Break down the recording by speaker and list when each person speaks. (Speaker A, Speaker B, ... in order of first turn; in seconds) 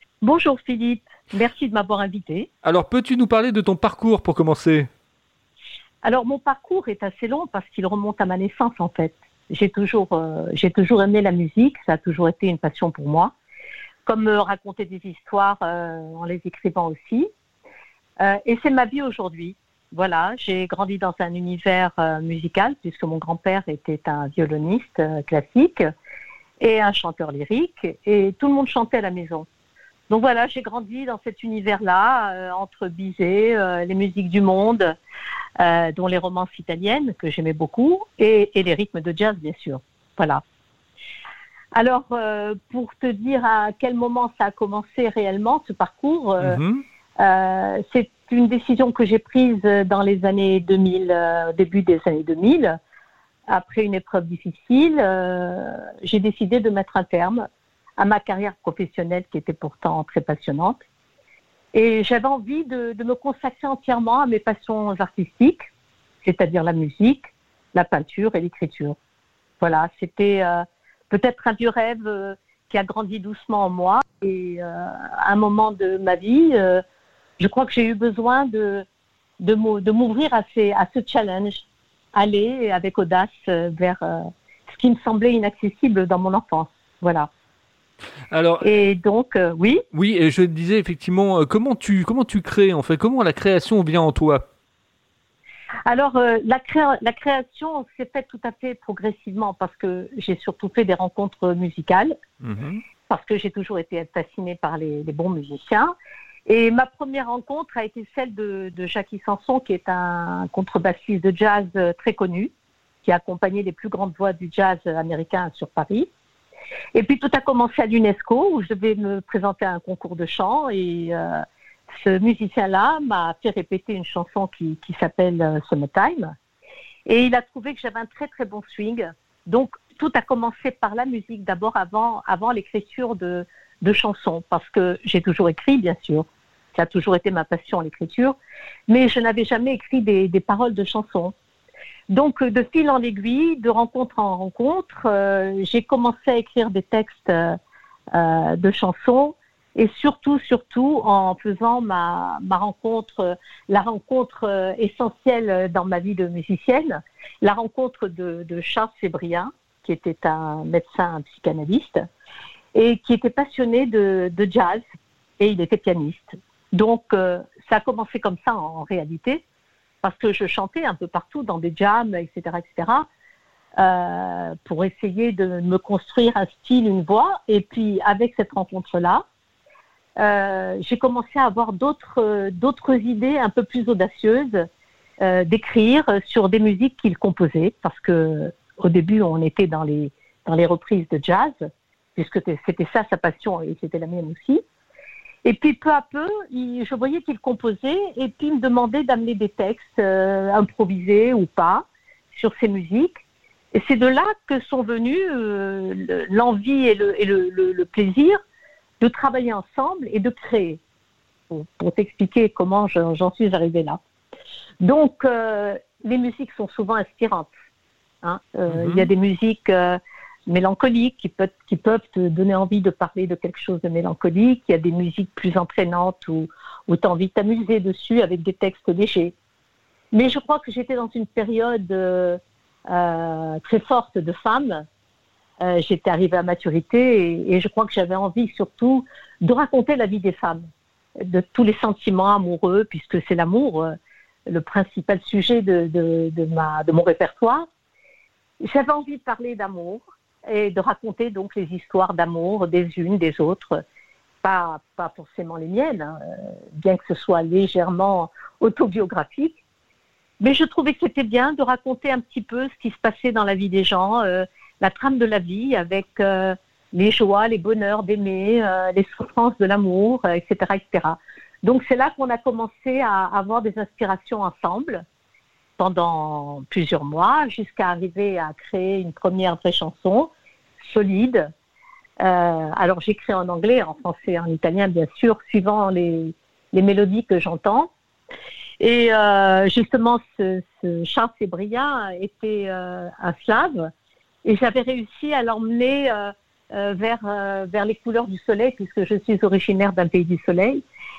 Speaker A: 0.2-2.5, 6.0-13.3, 14.1-17.3, 18.2-25.9, 26.6-29.5, 30.1-35.0, 35.6-40.4, 41.7-46.6, 47.2-52.8, 53.5-60.8, 61.7-65.7, 66.2-69.0, 69.6-76.8, 77.4-78.9, 79.4-87.3, 88.6-89.8, 95.9-102.2, 103.1-105.9, 106.5-112.5, 113.0-116.1, 117.0-126.3, 127.1-138.4, 138.9-141.3, 142.1-147.6, 148.1-162.0, 162.7-164.8, 165.4-169.4, 170.0-173.1, 173.8-179.2, 180.2-184.7, 185.2-191.6, 192.2-194.6, 195.4-203.2, 203.7-208.4, 209.0-210.8, 211.5-214.0, 214.8-217.5, 218.2-229.3, 230.1-234.9, 235.6-240.7, 241.2-243.9, 244.5-247.7, 248.6-253.8, 254.4-259.6, 260.4-275.1, 275.8-281.5, 282.2-287.9, 288.8-293.9, 294.4-300.8
Speaker B: 2.6-4.9, 46.4-46.8, 88.3-88.7, 89.9-94.5, 102.4-102.8, 218.7-219.1